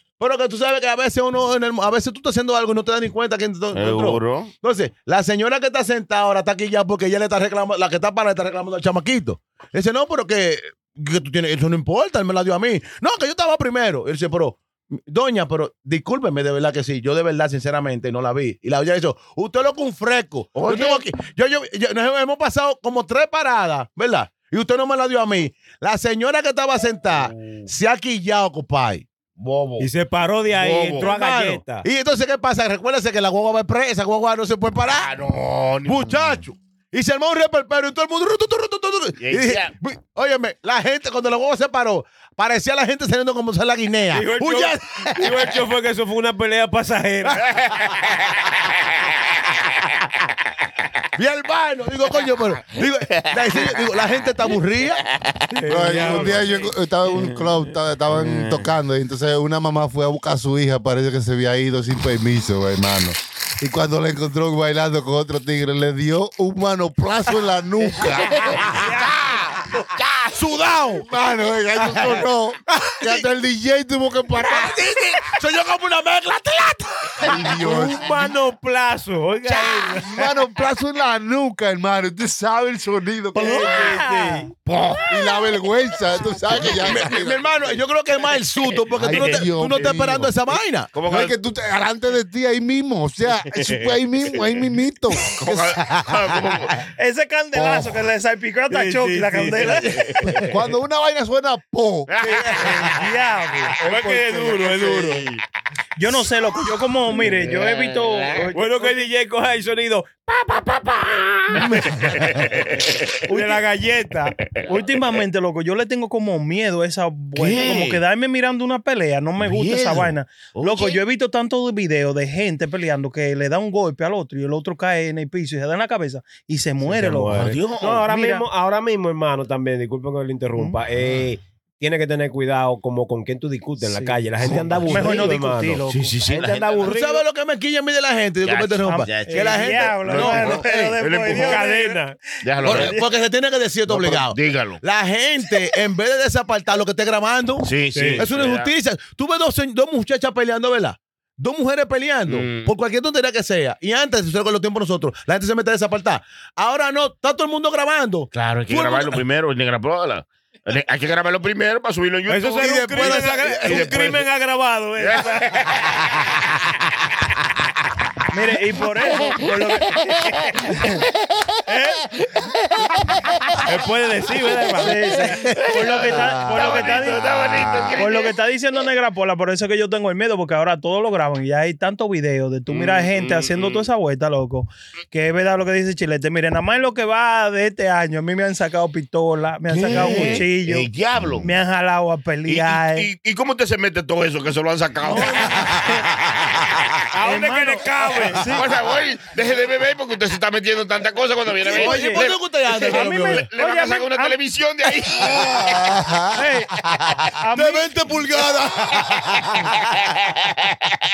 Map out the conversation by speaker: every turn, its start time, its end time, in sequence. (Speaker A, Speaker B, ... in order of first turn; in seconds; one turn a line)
Speaker A: 0.2-29.0
Speaker B: 3.7-4.5
Speaker B: 20.6-21.0
Speaker B: 27.1-27.7
Speaker B: 29.4-29.8
Speaker C: 29.8-31.9
Speaker B: 30.5-31.1
Speaker A: 31.0-35.1
Speaker B: 35.0-36.4
Speaker A: 35.8-45.5
Speaker B: 39.2-39.7
Speaker C: 44.1-47.5
Speaker B: 47.5-50.1
Speaker A: 51.1-55.0
Speaker B: 52.8-54.0
Speaker B: 55.0-58.7
Speaker C: 55.5-56.5
Speaker D: 55.7-69.1
Speaker B: 68.0-70.5
Speaker A: 70.3-71.0
Speaker D: 71.0-75.0
Speaker A: 71.8-73.3
Speaker B: 74.5-75.2
Speaker A: 75.2-77.5
Speaker D: 77.2-78.3
Speaker C: 77.6-80.1
Speaker B: 79.5-80.1
Speaker D: 80.1-84.0
Speaker C: 83.3-84.5
Speaker E: 83.3-84.5
Speaker B: 84.7-85.5
Speaker D: 85.0-87.4
Speaker B: 86.5-87.1
Speaker A: 86.6-90.9
Speaker B: 88.7-89.4
Speaker D: 89.0-90.3
Speaker B: 90.9-91.3
Speaker D: 91.0-95.3
Speaker B: 93.5-94.4
Speaker B: 95.2-96.8
Speaker A: 95.4-96.7
Speaker E: 97.0-99.9
Speaker D: 97.5-98.0
Speaker C: 98.7-100.0
Speaker B: 99.8-100.4
Speaker A: 100.2-100.5
Speaker D: 100.4-102.1
Speaker B: 102.1-102.9
Speaker A: 102.3-102.7
Speaker C: 102.4-102.9
Speaker E: 102.7-104.7
Speaker C: 103.8-105.3
Speaker B: 104.7-105.4
Speaker E: 106.0-109.1
Speaker B: 107.5-108.4
Speaker C: 108.5-112.0
Speaker A: 111.5-112.0
Speaker B: 112.0-113.2
Speaker E: 113.2-128.4
Speaker C: 113.3-114.3
Speaker B: 117.3-118.0
Speaker B: 119.4-121.0
Speaker C: 126.8-137.2
Speaker B: 127.3-128.1
Speaker E: 133.8-134.2
Speaker B: 134.7-135.2
Speaker E: 134.8-136.2
Speaker B: 135.9-136.9
Speaker A: 136.7-140.9
Speaker B: 138.4-141.6
Speaker E: 138.8-142.0
Speaker C: 141.2-142.2
Speaker B: 142.4-143.0
Speaker A: 142.6-159.2
Speaker E: 142.7-143.0
Speaker B: 143.9-144.8
Speaker B: 147.6-148.7
Speaker C: 147.9-148.3
Speaker B: 152.3-152.7
Speaker B: 158.3-164.2
Speaker C: 162.3-165.3
Speaker A: 162.5-164.0
Speaker B: 165.0-166.2
Speaker E: 168.3-171.0
Speaker C: 171.7-172.0
Speaker C: 173.6-175.3
Speaker E: 174.8-177.3
Speaker B: 175.7-178.3
Speaker E: 177.9-190.9
Speaker B: 182.7-183.9
Speaker B: 189.7-191.5
Speaker E: 191.4-193.1
Speaker B: 192.4-196.9
Speaker E: 195.0-196.0
Speaker C: 197.1-198.6
Speaker E: 197.2-198.6
Speaker B: 198.5-205.9
Speaker A: 201.6-203.5
Speaker E: 201.7-202.2
Speaker E: 202.9-204.3
Speaker D: 205.2-207.3
Speaker E: 206.3-206.7
Speaker E: 207.4-207.9
Speaker A: 207.5-209.9
Speaker B: 210.1-210.7